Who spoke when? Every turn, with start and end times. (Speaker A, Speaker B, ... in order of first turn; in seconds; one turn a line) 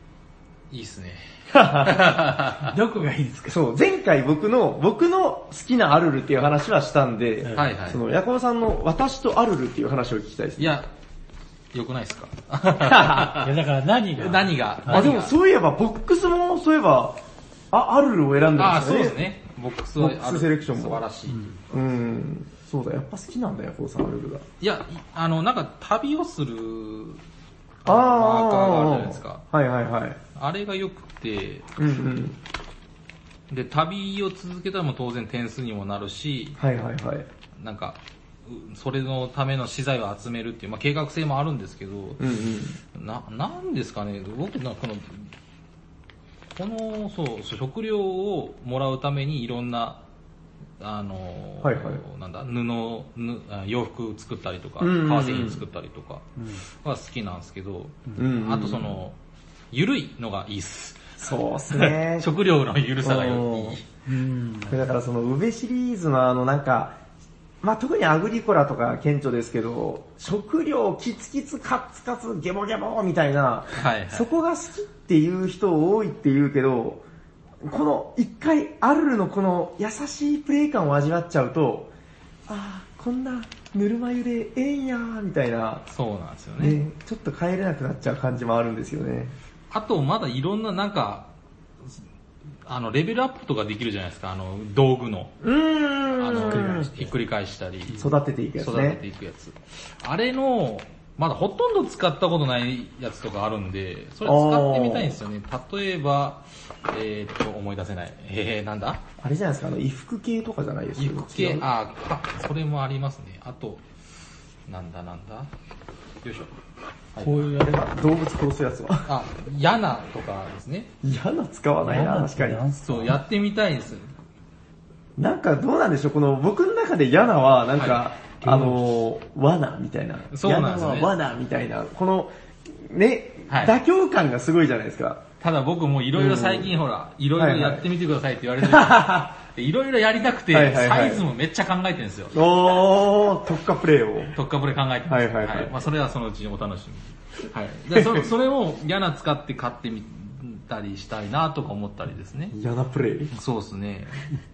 Speaker A: 0.7-2.8
Speaker B: 1.5-2.1
Speaker C: 2.6-3.6
Speaker B: 3.5-10.8
Speaker C: 7.4-7.7
Speaker A: 7.5-8.0
Speaker A: 10.6-10.9
Speaker A: 11.7-13.6
Speaker B: 12.8-13.3
Speaker C: 13.3-15.1
Speaker A: 14.2-15.3
Speaker B: 14.9-19.2
Speaker A: 18.6-21.6
Speaker B: 20.0-21.0
Speaker C: 21.3-21.6
Speaker B: 21.7-24.4
Speaker A: 24.6-27.2
Speaker A: 27.8-29.4
Speaker B: 27.8-30.2
Speaker A: 30.4-31.7
Speaker B: 31.8-32.4
Speaker A: 33.5-36.6
Speaker B: 36.6-37.3
Speaker A: 37.6-42.3
Speaker B: 42.2-42.8
Speaker A: 42.9-45.3
Speaker A: 46.5-50.0
Speaker A: 50.8-59.1
Speaker B: 51.6-52.0
Speaker B: 54.8-55.6
Speaker C: 56.4-56.6
Speaker B: 58.1-59.0
Speaker A: 59.7-61.2
Speaker B: 61.2-62.3
Speaker A: 61.7-63.9
Speaker B: 63.0-63.8
Speaker C: 64.0-64.8
Speaker B: 64.7-67.0
Speaker B: 67.6-77.0
Speaker A: 73.7-74.3
Speaker B: 77.6-81.9
Speaker B: 82.5-85.9
Speaker A: 85.9-86.8
Speaker B: 86.6-89.3
Speaker A: 89.7-91.3
Speaker A: 92.7-95.4
Speaker B: 95.4-97.0
Speaker A: 96.2-109.0
Speaker C: 96.6-96.8
Speaker B: 98.0-99.0
Speaker B: 104.2-105.2
Speaker B: 109.2-111.7
Speaker A: 111.0-113.8
Speaker A: 114.7-115.5
Speaker A: 116.2-116.5
Speaker A: 117.1-117.5
Speaker C: 117.2-117.8
Speaker B: 117.6-119.1
Speaker A: 119.0-121.0
Speaker B: 121.0-122.6
Speaker C: 121.8-123.2
Speaker A: 122.8-124.1
Speaker B: 125.2-135.2
Speaker A: 127.8-128.8
Speaker A: 130.3-131.2
Speaker A: 133.5-133.8
Speaker A: 135.4-142.4
Speaker B: 136.2-136.8
Speaker B: 137.3-137.9
Speaker B: 138.6-139.3
Speaker B: 140.5-141.2
Speaker B: 142.3-144.4
Speaker A: 144.3-152.5
Speaker B: 145.1-145.8
Speaker B: 147.9-148.3
Speaker B: 152.5-153.3
Speaker A: 153.3-154.3